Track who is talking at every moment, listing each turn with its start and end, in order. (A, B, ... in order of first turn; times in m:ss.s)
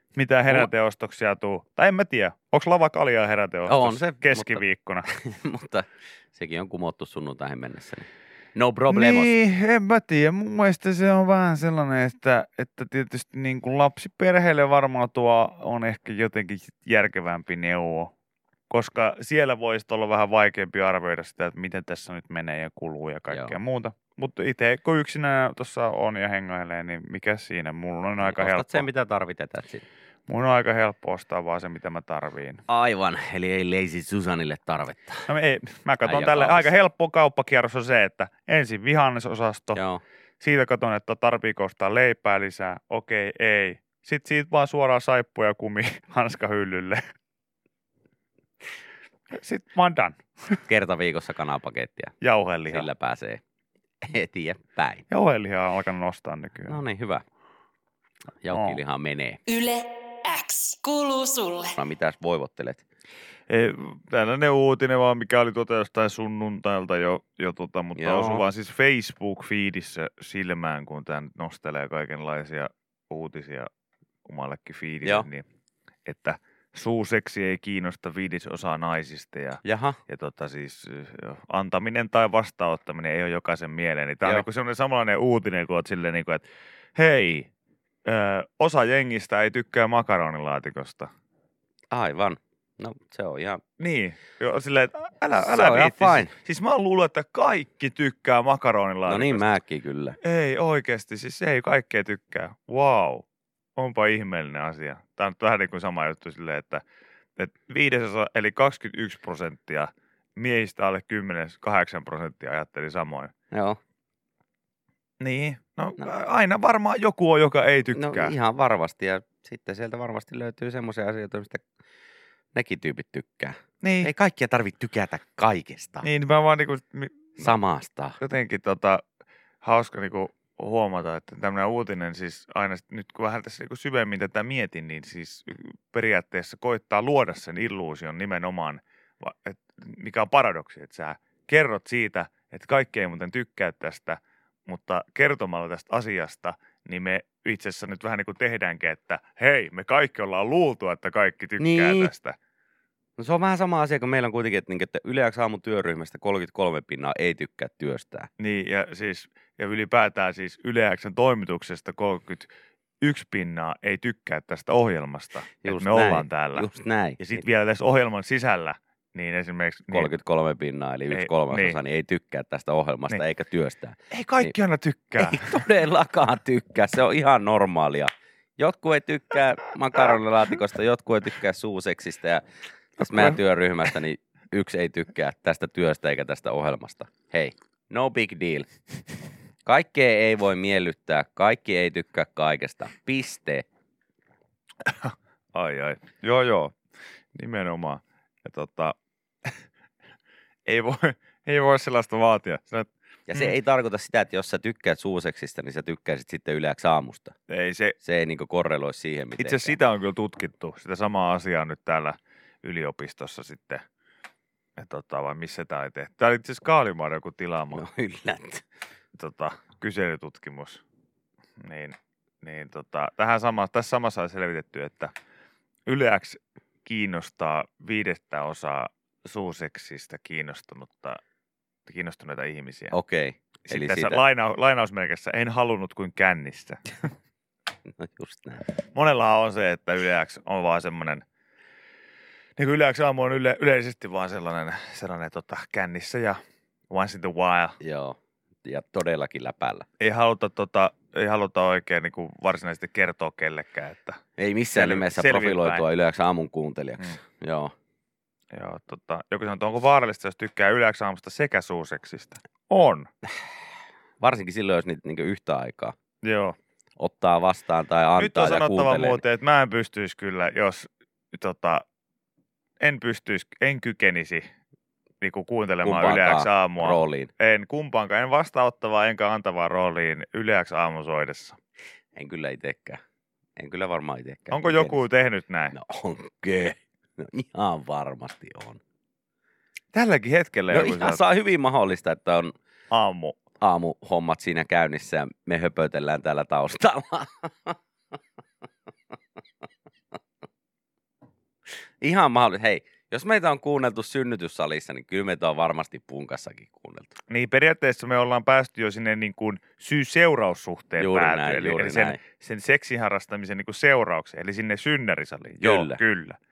0:00.2-0:05.1 A
0:03.7-0:09.3 B
0:08.9-0:18.1 A
0:18.7-0:28.9 A
0:23.3-0:23.6 B
0:28.2-0:29.8 B
0:30.3-0:32.6 A
0:32.7-0:35.3 B
0:35.3-0:39.8 A
0:36.0-0:36.7 B
0:39.7-0:40.0 B
0:40.4-0:47.0 A
0:49.3-0:50.6 A
0:50.7-0:52.1 B
0:52.2-0:52.9 A
0:52.7-0:53.4 B
0:54.0-0:55.1 B
0:55.1-0:56.8 A
0:56.7-0:57.2 B
0:58.4-0:59.4 B
0:58.5-0:58.8 A
0:59.5-1:01.8 C
1:01.8-1:02.8 B
1:03.5-1:13.7 A
1:08.0-1:08.4 B
1:14.2-1:15.4 A
1:16.0-1:26.4 A
1:19.6-1:20.0 B
1:27.0-1:27.5 A
1:28.1-1:31.1 A
1:31.9-1:33.6 B
1:33.8-1:39.5 A
1:35.4-1:36.3 B
1:39.1-1:40.2 B
1:40.2-1:43.2 A
1:43.8-1:46.8 A
1:47.4-1:53.3 A
1:53.5-1:53.8 B
1:55.2-1:58.3 A
1:57.9-2:01.6 B
2:02.5-2:06.1 B
2:03.8-2:04.1 A
2:06.0-2:07.5 A
2:07.4-2:08.2 B
2:08.2-2:09.0 A
2:09.6-2:32.4 A
2:31.6-2:32.1 B
2:33.2-2:38.3 B
2:38.4-2:42.5 A
2:43.0-2:46.7 A
2:45.6-2:47.4 B
2:47.2-2:50.1 A
2:49.9-2:54.6 B
2:51.1-2:51.8 A
2:54.1-2:55.6 A
2:55.2-3:02.4 B
3:03.0-3:08.7 B
3:03.0-3:03.4 A
3:09.6-3:13.7 B
3:14.8-3:16.8 A
3:17.4-3:19.0 A
3:20.7-3:23.5 A
3:23.3-3:27.4 B
3:27.5-3:28.0 A
3:28.0-3:29.8 B
3:29.4-3:33.8 A
3:34.8-3:37.8 A
3:37.7-3:38.6 B
3:39.2-3:40.8 A
3:41.6-3:45.1 A
3:45.9-3:51.2 A
3:51.9-3:53.0 A
3:52.9-3:54.2 B
3:53.7-3:57.0 A
3:57.9-3:58.6 B
3:58.9-4:01.2 A
4:02.6-4:06.4 A
4:06.9-4:07.8 A
4:07.8-4:09.9 B
4:10.0-4:14.2 A
4:14.4-4:17.7 B
4:14.7-4:15.8 A
4:18.5-4:23.1 A
4:24.2-4:26.0 B
4:26.2-4:26.6 A
4:27.0-4:29.2 B
4:28.2-4:31.8 A
4:32.8-4:34.5 A
4:35.2-4:41.6 A
4:35.8-4:37.3 B
4:42.1-4:43.0 B
4:43.6-4:45.0 B
4:44.5-4:45.8 A
4:45.7-4:48.8 B
4:49.9-4:51.2 A
4:50.7-4:52.5 B
4:52.9-4:53.4 A
4:53.6-4:57.8 B
5:02.0-5:07.2 B
5:07.3-5:16.4 A
5:11.0-5:12.2 B
5:15.6-5:16.0 B